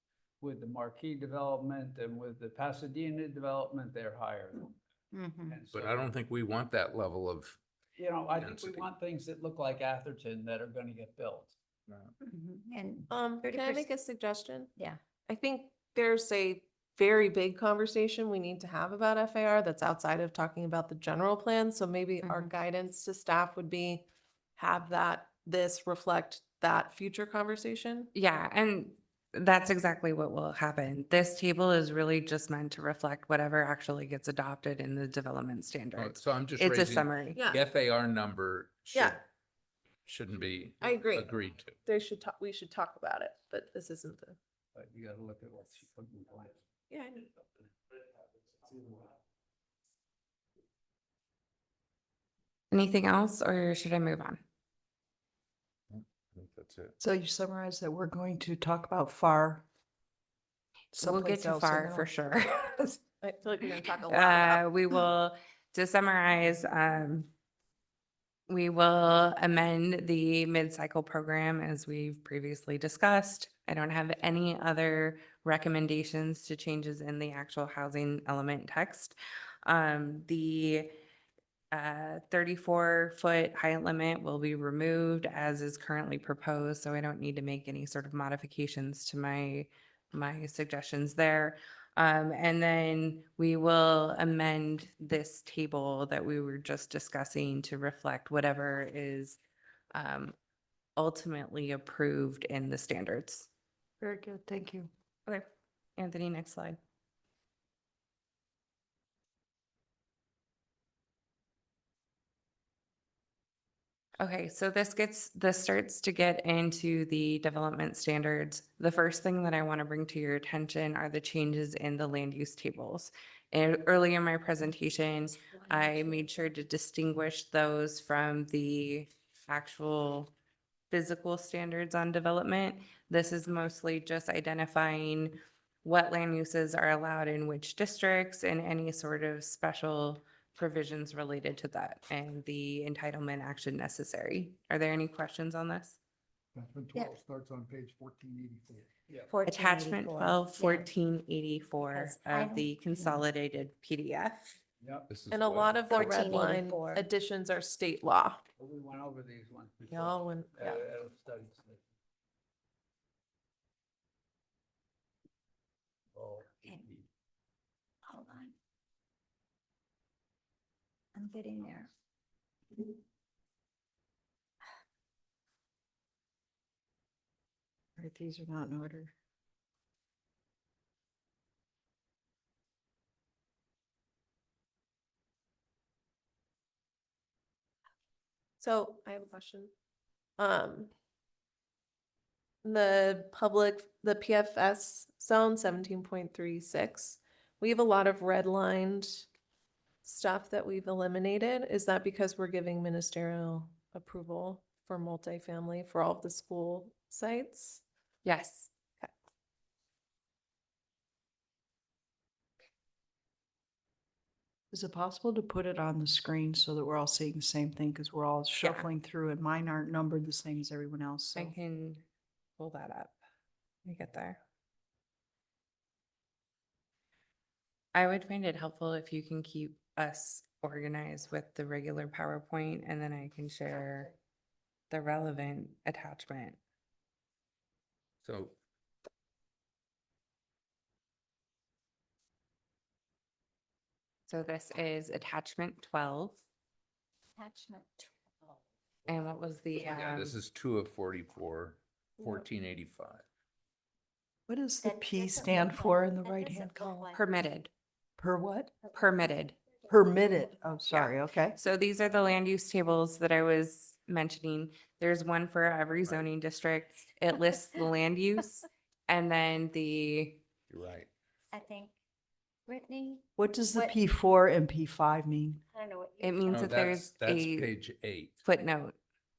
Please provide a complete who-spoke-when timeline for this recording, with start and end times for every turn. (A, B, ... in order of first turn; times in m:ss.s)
0:00.4-0:04.8 A
0:05.1-0:05.6 B
0:05.4-0:06.1 A
0:05.7-0:07.6 C
0:08.0-0:11.5 A
0:08.3-0:08.9 C
0:11.9-0:12.1 C
0:12.2-0:13.8 B
0:13.1-0:14.7 D
0:15.3-0:24.0 D
0:22.2-0:22.5 B
0:24.6-0:28.1 D
0:28.1-0:37.4 E
0:36.0-0:39.2 C
0:37.3-0:37.6 D
0:38.9-0:39.2 D
0:40.0-0:41.8 C
0:40.8-0:41.3 D
0:41.8-0:44.4 D
0:44.7-0:46.6 A
0:46.9-0:47.3 D
0:52.7-0:54.4 E
0:55.9-0:56.9 C
0:57.0-0:59.6 F
1:00.9-1:02.1 F
1:01.0-1:03.0 E
1:03.2-1:04.6 D
1:04.1-1:07.3 E
1:08.5-1:20.9 E
1:21.7-1:39.4 E
1:39.9-1:40.3 E
1:41.0-1:43.5 E
1:44.0-1:44.9 F
1:46.0-1:46.8 E
1:54.2-2:10.3 E
2:05.4-2:06.3 B
2:10.9-2:26.0 E
2:26.5-2:28.9 G
2:29.3-2:30.9 B
2:29.4-2:34.6 E
2:31.9-2:33.2 B
2:34.8-2:35.1 A
2:35.1-2:36.3 C
2:35.3-2:38.4 D
2:35.9-2:37.0 B
2:38.6-2:41.8 A
2:39.9-2:40.8 D
2:46.1-2:47.1 A
2:48.1-2:48.5 B
2:51.1-2:51.9 B
2:58.0-2:59.1 F
3:08.6-3:09.7 D
3:10.4-3:10.9 D
3:12.6-3:19.3 D
3:20.0-3:27.8 D
3:28.2-3:28.7 E
3:34.7-3:41.5 F
3:38.6-3:38.9 E
3:41.4-3:42.0 E
3:42.6-3:43.2 E
3:43.8-3:44.4 E
3:47.9-3:54.1 E
3:54.9-3:56.6 E
3:58.2-3:58.6 C
4:04.3-4:06.4 E
4:07.4-4:08.6 B
4:09.1-4:10.4 E
4:09.8-4:13.2 C
4:14.5-4:17.1 F
4:14.8-4:17.2 B
4:17.1-4:17.7 E
4:18.2-4:18.7 F
4:18.9-4:19.6 E
4:19.9-4:21.6 F
4:20.9-4:30.4 E
4:26.0-4:26.3 C
4:30.7-4:31.1 C
4:31.5-4:31.9 B
4:32.7-4:33.9 B
4:33.4-4:35.6 F
4:35.7-4:36.8 B
4:36.2-4:37.7 E
4:36.5-4:38.4 C
4:38.4-4:38.9 E